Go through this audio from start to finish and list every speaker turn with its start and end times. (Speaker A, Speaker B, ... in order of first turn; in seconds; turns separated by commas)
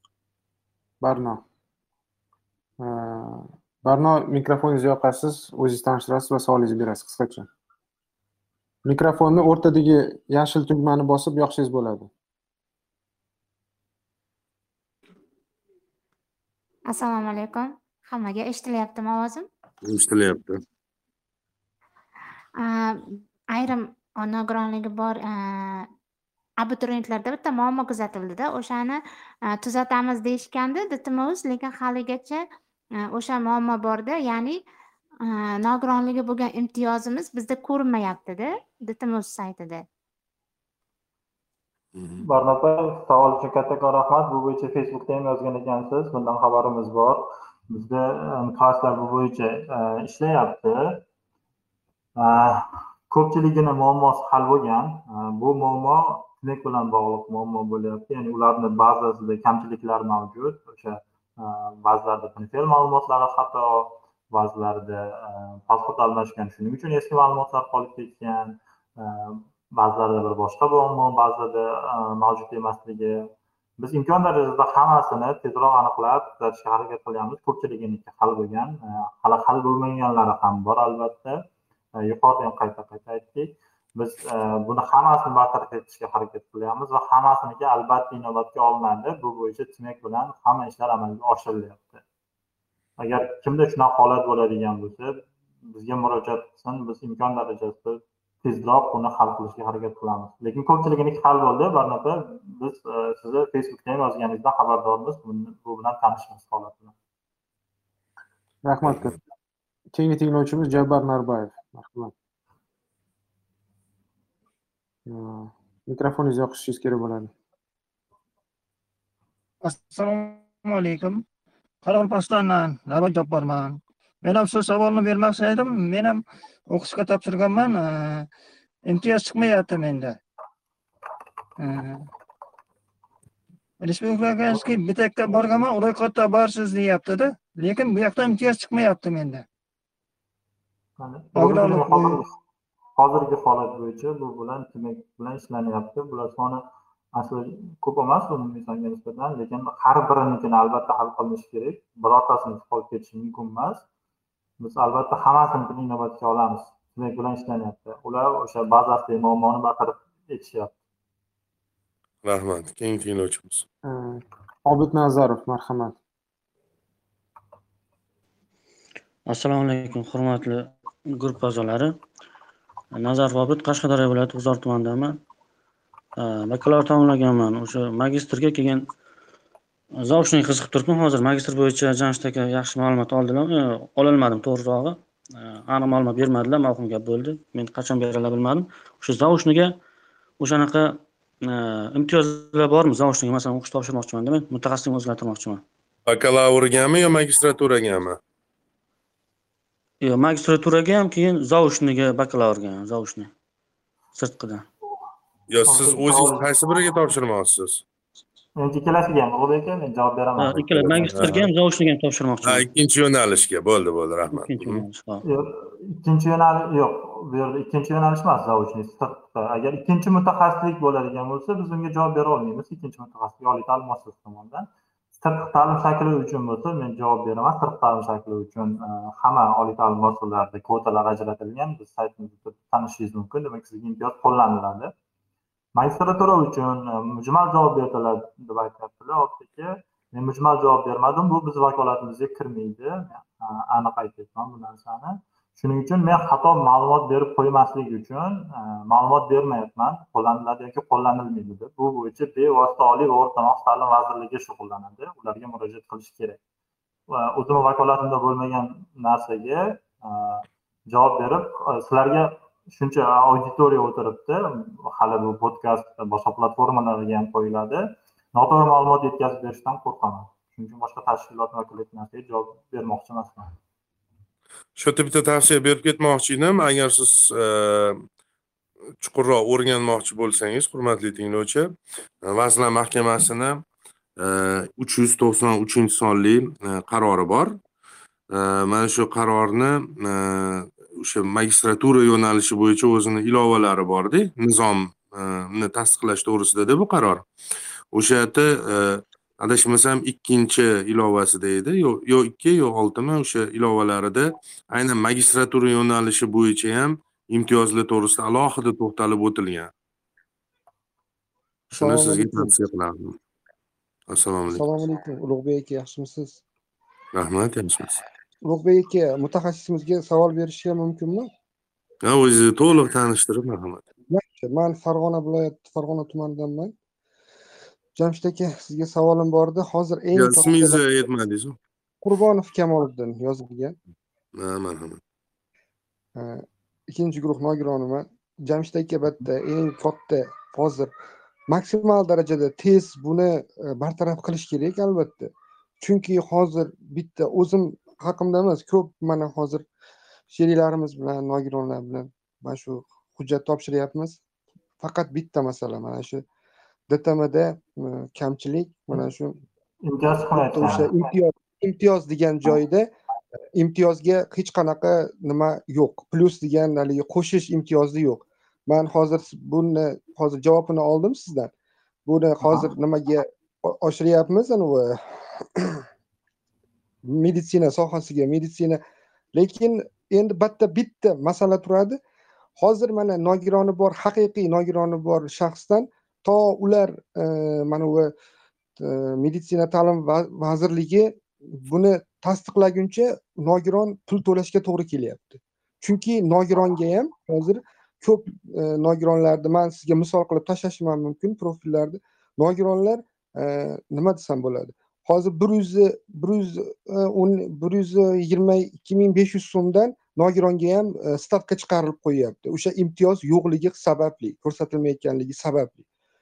Speaker A: 1.0-1.4, Speaker A: 2.8-7.5, Speaker A: 8.8-12.1, Speaker B: 16.9-19.4, Speaker C: 19.8-20.6, Speaker B: 22.6-25.9, Speaker B: 26.6-29.0, Speaker B: 29.5-32.4, Speaker B: 33.1-34.6, Speaker B: 35.2-39.8, Speaker C: 41.9-42.2, Speaker D: 42.2-51.0, Speaker D: 52.2-81.4, Speaker D: 82.0-92.0, Speaker D: 93.0-106.9, Speaker A: 108.6-109.2, Speaker C: 108.8-109.1, Speaker A: 109.9-112.1, Speaker A: 115.0-117.3, Speaker E: 119.6-121.2, Speaker E: 121.8-128.3, Speaker E: 128.8-130.2, Speaker E: 131.6-132.1, Speaker E: 133.8-139.4, Speaker D: 141.0-142.3, Speaker E: 141.3-142.2, Speaker D: 143.0-153.8, Speaker D: 154.6-160.8, Speaker C: 162.2-163.6, Speaker A: 163.8-165.9, Speaker F: 169.3-171.9, Speaker F: 172.9-175.2, Speaker F: 176.2-178.9, Speaker F: 180.0-189.8, Speaker F: 190.4-195.6, Speaker C: 196.1-198.2, Speaker F: 200.0-203.3, Speaker F: 204.1-204.6, Speaker C: 205.5-207.8, Speaker D: 205.7-206.4, Speaker D: 208.6-211.1, Speaker F: 210.4-212.7, Speaker C: 210.6-211.5, Speaker C: 212.4-214.8, Speaker F: 214.3-215.2, Speaker D: 215.2-234.9, Speaker D: 235.8-256.4, Speaker D: 257.1-273.5, Speaker C: 274.8-278.0, Speaker C: 279.0-283.6, Speaker C: 284.2-287.6, Speaker C: 288.3-297.2, Speaker C: 297.9-309.7, Speaker C: 311.7-313.1, Speaker G: 311.7-312.5, Speaker C: 314.1-314.6, Speaker G: 314.5-316.4, Speaker C: 317.1-318.0, Speaker G: 318.4-321.3, Speaker C: 322.0-323.8, Speaker G: 324.1-326.7, Speaker G: 328.0-330.9, Speaker C: 330.1-331.6, Speaker G: 332.0-333.8, Speaker C: 334.3-335.0, Speaker G: 336.2-340.9, Speaker G: 341.5-349.6, Speaker G: 350.3-354.2, Speaker G: 354.8-356.2, Speaker G: 356.9-359.4, Speaker D: 359.8-360.9, Speaker G: 360.3-362.9, Speaker G: 363.5-371.5, Speaker G: 372.1-375.8, Speaker G: 377.1-378.8, Speaker G: 379.3-382.0, Speaker G: 382.6-388.1, Speaker G: 388.8-415.8